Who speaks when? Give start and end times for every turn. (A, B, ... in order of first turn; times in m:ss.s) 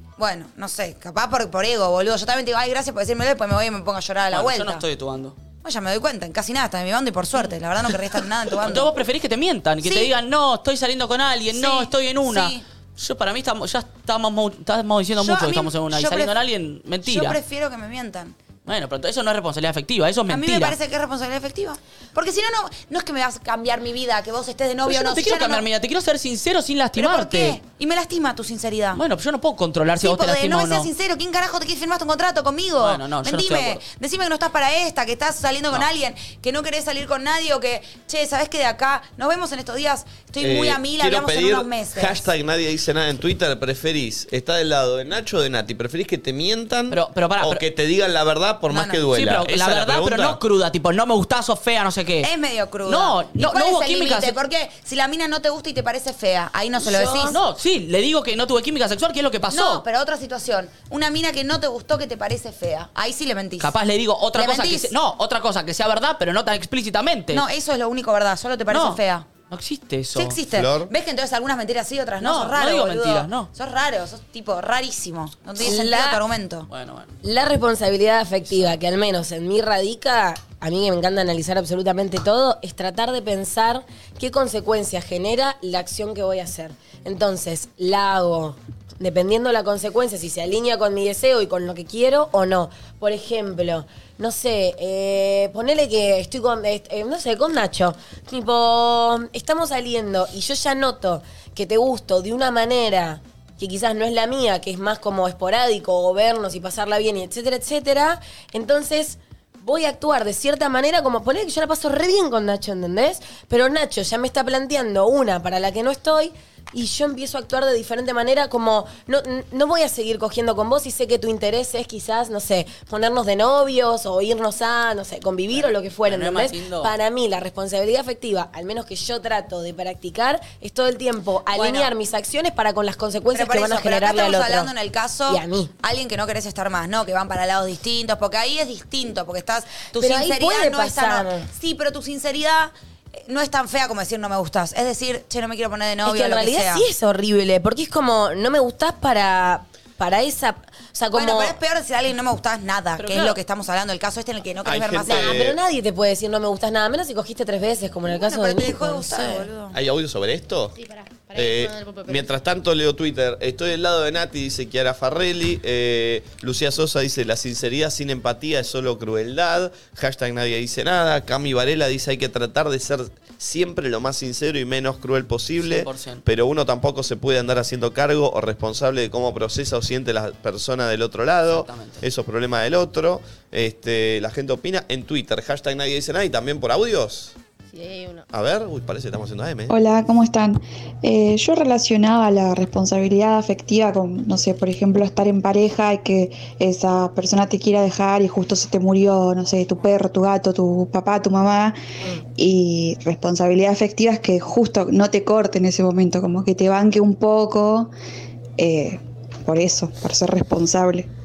0:00.2-0:04.8 A
0:04.3-0:05.3 B
0:05.6-0:08.9 A
0:08.6-0:17.4 B
0:09.8-0:10.1 A
0:11.5-0:12.6 A
0:15.2-0:16.4 A
0:17.0-0:18.4 A
0:18.6-0:20.8 B
0:20.3-0:25.6 A
0:24.8-0:27.6 B
0:27.0-0:29.0 A
0:28.9-0:30.9 B
0:30.0-0:42.3 A
0:32.8-0:33.8 B
0:40.4-0:50.4 C
0:46.9-0:47.6 B
0:48.7-0:49.0 A
0:49.1-0:52.3 B
0:52.2-0:57.4 A
0:52.8-0:54.4 B
0:56.9-0:57.3 D
0:57.2-0:59.8 B
0:59.5-1:03.7 A
1:03.6-1:07.4 B
1:04.3-1:04.9 A
1:07.3-1:09.3 A
1:08.7-1:10.4 B
1:10.1-1:16.7 A
1:10.5-1:10.9 C
1:12.2-1:13.5 B
1:15.6-1:16.2 D
1:16.7-1:17.1 B
1:17.2-2:14.7 D
2:06.1-2:06.9 B
2:11.5-2:11.9 A
2:13.3-2:26.9 A
2:15.3-2:15.7 D
2:20.0-2:21.4 D
2:26.0-2:31.6 D
2:31.1-2:35.5 A
2:33.0-2:33.4 B
2:34.6-2:35.6 C
2:35.0-2:39.5 D
2:38.0-2:39.8 A
2:39.7-2:40.8 C
2:40.7-2:42.3 E
2:41.3-3:07.3 C
2:55.6-2:56.2 B
3:01.5-3:02.0 B
3:07.7-3:08.2 E
3:08.3-3:09.7 C
3:09.7-3:21.8 F
3:22.3-3:27.9 F
3:28.6-3:31.1 F